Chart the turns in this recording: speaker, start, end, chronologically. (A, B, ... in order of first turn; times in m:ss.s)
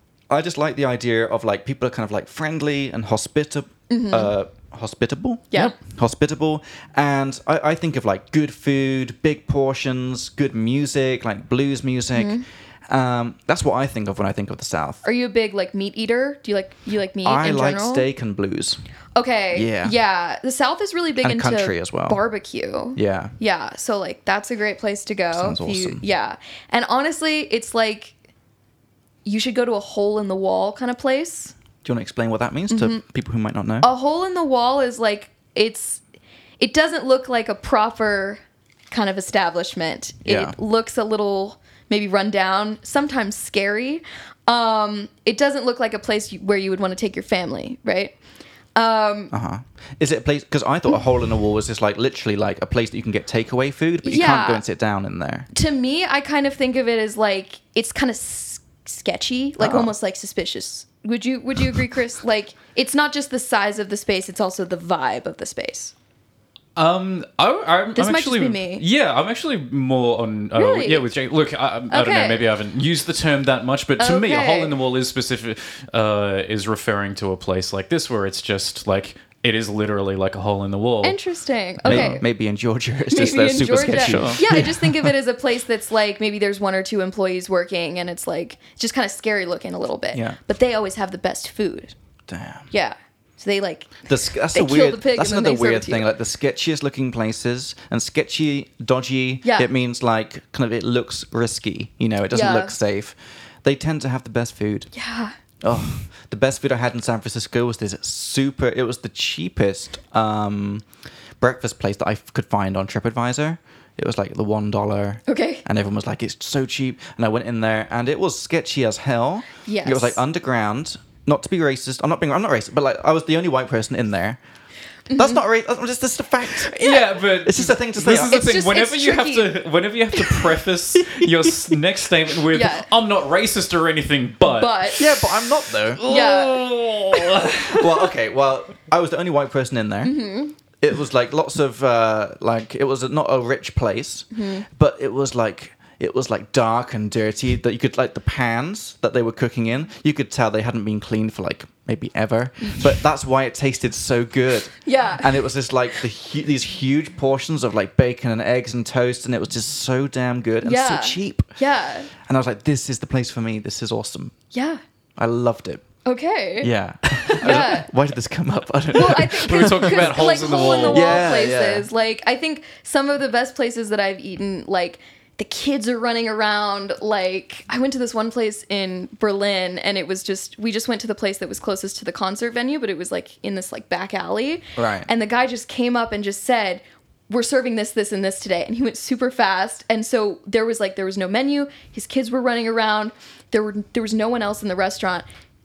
0:00.3-0:15.0 A
0:03.9-0:04.3 B
0:12.2-0:12.4 B
0:15.0-0:18.1 B
0:17.2-0:18.8 A
0:19.2-0:28.2 B
0:19.5-0:19.9 A
0:21.2-0:22.2 A
0:23.0-0:23.3 A
0:25.3-0:26.0 A
0:29.2-0:31.5 B
0:31.8-0:33.9 A
0:32.7-0:33.0 B
0:33.8-0:36.0 B
0:36.6-0:48.2 B
0:40.2-0:40.6 A
0:48.8-0:49.3 B
0:49.3-0:55.5 A
0:54.0-0:54.6 B
0:55.5-1:05.9 B
0:59.6-0:59.9 A
1:06.8-1:21.2 C
1:08.0-1:08.8 B
1:10.6-1:11.1 B
1:11.9-1:12.4 B
1:14.0-1:14.7 B
1:21.0-1:22.2 B
1:21.8-1:22.2 C
1:21.8-1:25.1 A
1:23.1-1:31.9 B
1:23.8-1:24.4 C
1:30.1-1:30.4 A
1:32.3-1:32.7 A
1:32.7-1:36.1 B
1:34.1-1:44.9 A
1:39.4-1:39.7 B
1:42.3-1:42.8 B
1:44.9-1:45.3 B
1:45.6-1:50.8 A
1:51.4-2:04.4 A
1:55.3-1:55.6 B
1:59.6-2:00.2 B
2:05.1-2:05.4 B
2:05.2-2:06.8 A
2:06.6-2:18.1 C
2:07.4-2:08.4 A
2:08.0-2:09.6 B
2:11.0-2:11.5 A
2:12.5-2:12.9 B
2:14.4-2:15.1 B
2:15.0-2:16.0 A
2:16.0-2:17.2 B
2:17.5-2:20.2 A
2:20.0-2:20.6 B
2:20.8-2:41.5 A
2:24.3-2:24.7 B
2:34.8-2:35.4 B
2:40.6-2:42.1 B
2:42.2-2:44.3 A
2:44.5-2:44.8 B
2:45.2-2:45.8 A
2:46.0-2:47.9 B
2:46.6-2:50.3 A
2:47.4-2:47.7 C
2:48.9-3:15.2 B
2:49.0-2:51.3 C
2:50.8-2:51.9 A
3:04.8-3:05.1 A